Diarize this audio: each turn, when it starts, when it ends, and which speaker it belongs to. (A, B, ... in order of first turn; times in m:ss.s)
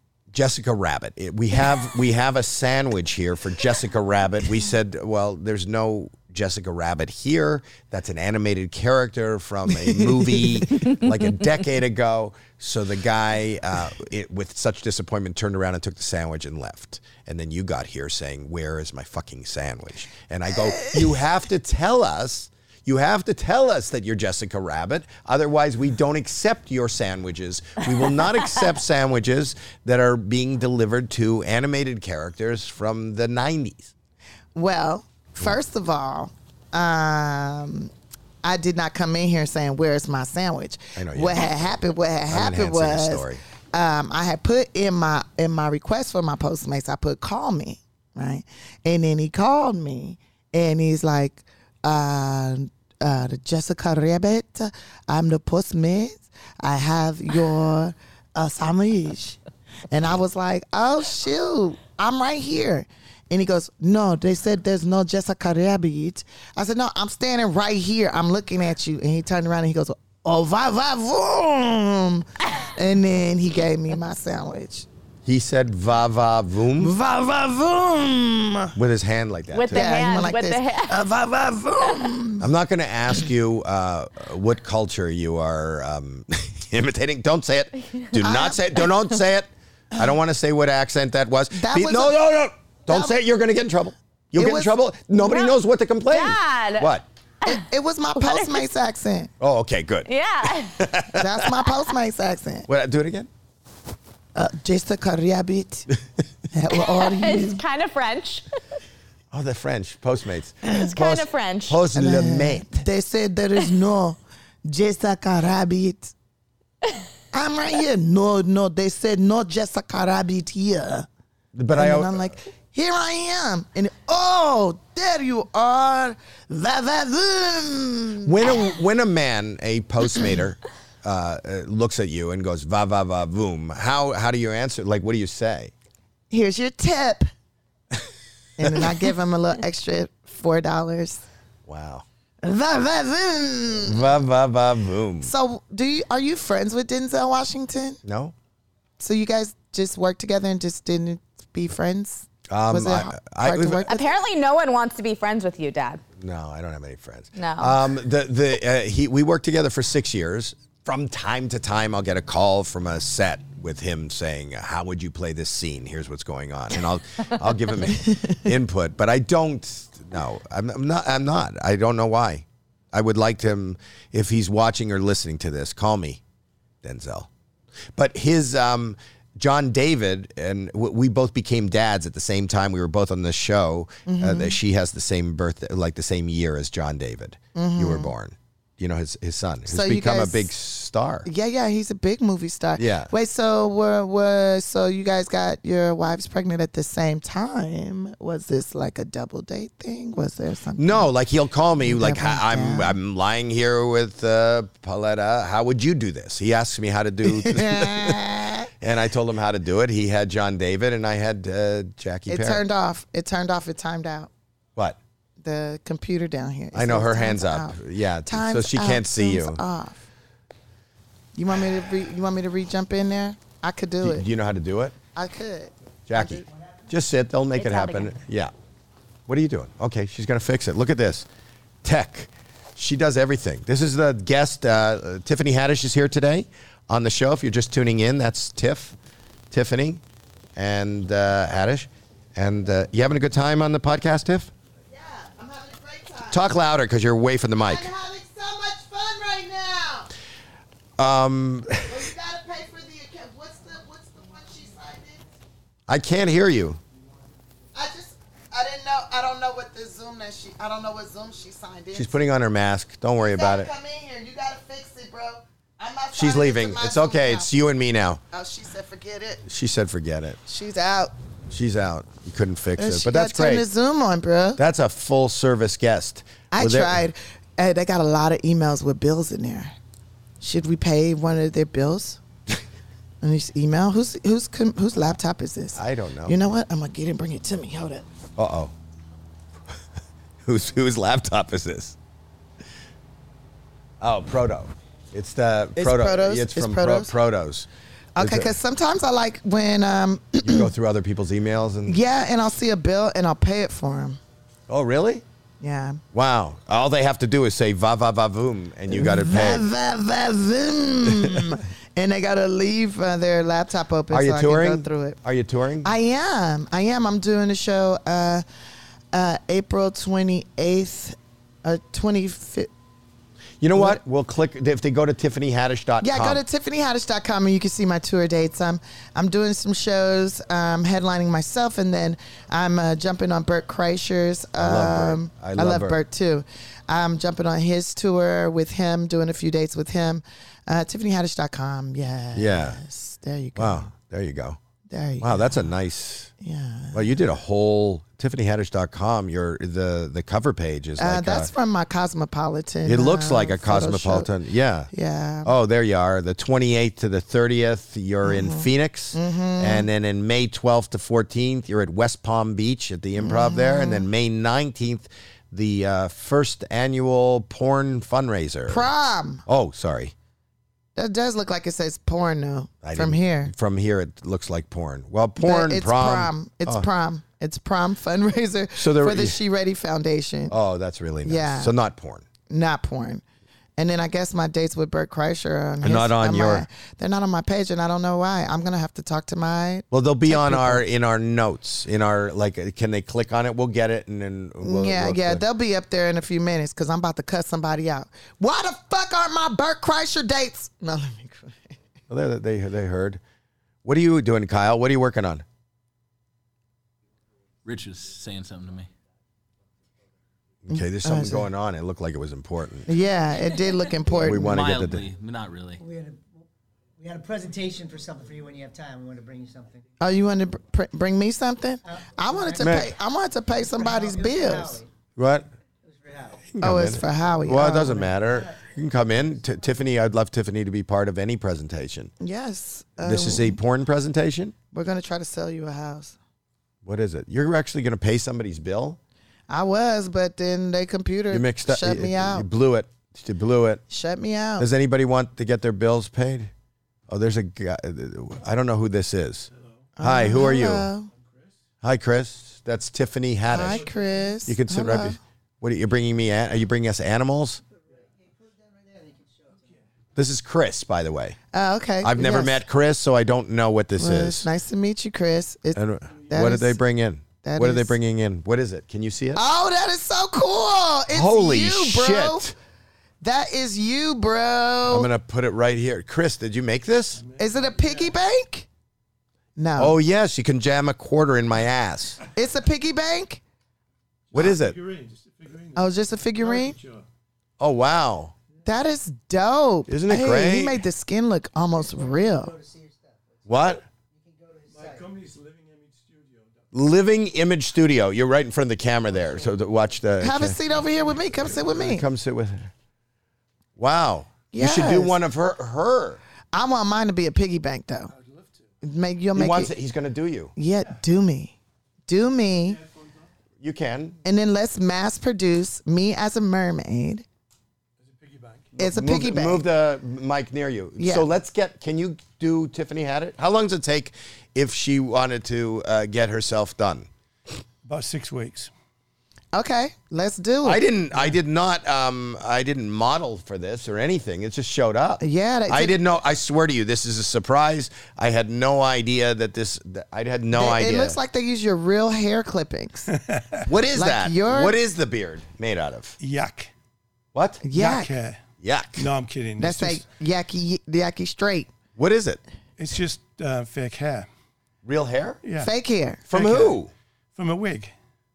0:00.3-0:33.9 A
0:20.7-0:21.0 B
0:34.5-1:14.9 B
0:41.0-0:41.8 A
0:42.3-0:43.4 A
1:15.2-1:16.9 A
1:16.8-1:18.8 B
1:18.8-1:19.9 A
1:19.5-1:21.0 C
1:19.7-1:22.5 B
1:22.4-1:37.0 A
1:28.1-1:28.6 B
1:31.5-1:32.2 B
1:32.9-1:33.2 B
1:34.3-1:34.7 B
1:35.2-1:35.6 C
1:36.1-1:36.9 C
1:37.4-1:39.3 B
1:38.2-1:38.6 C
1:39.4-1:41.5 A
1:40.0-1:40.8 C
1:41.1-1:42.7 B
1:42.7-1:43.3 A
1:44.3-1:45.9 B
1:46.5-1:47.6 B
1:46.7-1:48.4 C
1:49.3-1:52.8 A
1:50.7-1:51.8 C
1:51.9-1:56.1 B
1:57.3-2:01.1 B
2:01.5-2:02.3 A
2:01.7-2:08.5 B
2:08.2-2:15.7 A
2:16.3-2:17.3 B
2:18.6-2:21.2 B
2:21.6-2:22.0 A
2:22.4-2:24.1 B
2:23.8-2:25.3 A
2:25.2-2:28.0 B
2:28.0-2:28.3 A
2:29.0-2:34.1 B
2:32.5-2:33.8 A
2:33.8-2:36.0 C
2:36.2-2:56.2 A
2:37.4-2:37.8 C
2:56.8-2:57.3 A
2:57.9-3:11.3 A
3:04.0-3:04.6 B
3:07.5-3:08.1 B
3:09.7-3:10.5 B
3:11.2-3:21.1 B
3:12.8-3:13.1 A
3:20.8-3:28.2 A
3:21.8-3:23.0 B
3:27.2-3:28.7 B
3:28.8-3:32.6 A
3:32.3-3:34.3 B
3:35.4-3:40.0 B
3:36.7-3:39.6 A
3:41.3-3:44.3 B
3:44.0-3:44.9 A
3:45.1-3:46.5 B
3:46.1-3:48.5 A
3:47.6-3:48.1 C
3:49.3-3:51.2 A
3:51.8-3:59.0 A
3:59.5-4:00.0 A
4:00.6-4:04.5 A
4:04.9-4:06.5 B
4:06.3-4:07.9 A
4:07.6-4:10.1 B
4:11.0-4:12.0 A
4:11.9-4:15.2 B
4:15.9-4:16.8 A
4:17.7-4:22.2 B
4:21.9-4:23.7 A
4:23.2-4:27.5 B
4:26.1-4:28.2 A
4:28.3-4:29.4 B
4:29.4-4:30.4 A
4:30.4-4:31.1 B
4:31.5-4:33.6 A
4:32.8-4:34.6 B
4:34.6-4:37.0 A
4:36.5-4:39.7 B
4:40.4-4:42.2 B
4:43.2-4:48.1 B
4:45.7-4:46.4 A
4:48.4-4:48.7 A
4:50.4-4:52.0 A
4:54.0-4:57.7 A
4:55.8-4:57.1 B
4:58.2-5:00.7 B
4:58.2-4:58.5 A
5:00.4-5:02.0 A
5:01.8-5:04.2 B
5:04.7-5:05.2 A
5:05.6-5:06.0 B
5:06.1-5:09.7 A
5:08.9-5:15.2 B
5:14.1-5:15.9 A
5:15.8-5:18.4 B
5:19.1-5:22.7 B
5:23.6-5:26.4 A
5:23.7-5:24.0 B
5:26.0-5:43.9 B
5:34.6-5:36.0 A
5:42.3-5:42.8 A
5:43.6-5:44.6 A
5:44.9-5:45.7 B
5:45.2-5:46.3 A
5:46.4-5:47.2 B
5:46.9-5:51.5 A
5:51.0-5:54.3 B
5:52.8-5:54.9 A
5:54.9-5:55.5 B
5:55.4-6:08.8 A
5:58.2-5:59.9 B
6:03.2-6:04.1 B
6:08.7-6:09.4 B
6:09.4-6:10.1 A
6:11.0-6:13.5 B
6:12.8-6:16.9 A
6:15.4-6:20.6 B
6:18.7-6:19.4 A
6:20.5-6:22.2 A
6:21.2-6:21.7 B
6:22.5-6:23.2 B
6:23.8-6:30.8 B
6:25.8-6:26.6 A
6:29.9-6:35.4 A
6:34.6-6:41.7 B
6:42.1-6:43.2 A
6:43.8-6:45.4 A
6:47.6-6:48.9 D
6:50.6-6:52.9 A
6:50.7-6:51.5 B
6:52.8-6:54.6 B
6:54.2-6:55.1 A
6:54.3-6:55.8 D
6:55.8-6:56.4 E
6:57.0-6:59.9 E
7:00.0-7:04.8 B
7:01.8-7:02.9 E
7:02.6-7:02.9 A
7:03.7-7:04.9 E
7:05.2-7:05.4 A
7:05.8-7:06.5 E
7:06.5-7:12.1 A
7:06.6-7:08.1 B
7:08.2-7:08.6 E
7:12.2-7:13.6 B
7:13.0-7:14.5 A
7:14.7-7:16.2 B
7:16.8-7:19.0 A
7:19.5-7:22.5 B
7:21.3-7:23.8 A
7:23.9-7:24.7 B
7:24.6-7:26.5 A
7:27.1-7:29.5 A
7:30.0-7:31.1 B
7:30.0-7:30.9 A
7:31.8-7:33.8 A
7:33.5-7:35.2 B
7:34.4-7:37.6 A
7:37.8-7:39.8 E
7:40.2-7:41.4 A
7:41.5-7:42.6 B
7:42.0-7:44.5 A
7:44.0-7:46.8 B
7:45.7-7:49.4 A
7:47.4-7:48.0 B
7:49.3-7:52.5 B
7:51.1-7:52.5 A
7:53.2-7:55.1 B
7:54.9-7:57.2 A
7:57.2-7:58.1 F
7:57.4-7:58.7 B
7:59.6-8:00.0 B
7:59.8-8:02.2 A
8:02.3-8:03.4 B
8:04.3-8:07.1 F
8:04.3-8:04.8 A
8:05.7-8:06.8 B
8:07.6-8:08.3 A
8:08.6-8:12.5 B
8:09.9-8:10.8 A
8:11.7-8:15.1 E
8:13.4-8:13.8 A
8:14.7-8:16.7 F
8:16.7-8:20.6 A
8:19.2-8:19.5 F
8:20.2-8:22.1 B
8:20.7-8:21.7 F
8:21.6-8:22.7 A
8:23.8-8:26.2 A
8:24.5-8:25.2 B
8:26.5-8:28.1 B
8:28.1-8:28.6 F
8:28.8-8:29.7 B
8:29.3-8:30.5 A
8:30.6-8:31.6 B
8:32.1-8:32.8 B
8:32.7-8:33.2 F
8:33.6-8:34.2 A
8:34.2-8:37.2 B
8:38.0-8:38.8 F
8:38.8-8:47.1 A
8:38.8-8:39.6 B
8:41.0-8:41.3 B
8:47.8-8:48.7 F
8:49.5-8:50.8 B
8:50.6-9:01.2 A
8:55.2-8:56.0 B
9:00.5-9:03.1 B
9:03.1-9:03.7 F
9:03.6-9:06.2 A
9:03.9-9:04.8 B
9:06.2-9:06.7 F
9:07.3-9:07.6 A
9:07.6-9:08.1 B
9:07.7-9:08.4 F
9:08.6-9:09.1 A
9:09.0-9:10.0 F
9:09.6-9:11.7 B
9:12.0-9:12.4 A
9:12.8-9:14.3 F
9:14.8-9:15.4 A
9:15.4-9:15.7 F
9:15.6-9:16.2 B
9:16.3-9:16.9 A
9:16.3-9:16.8 F
9:17.3-9:17.9 F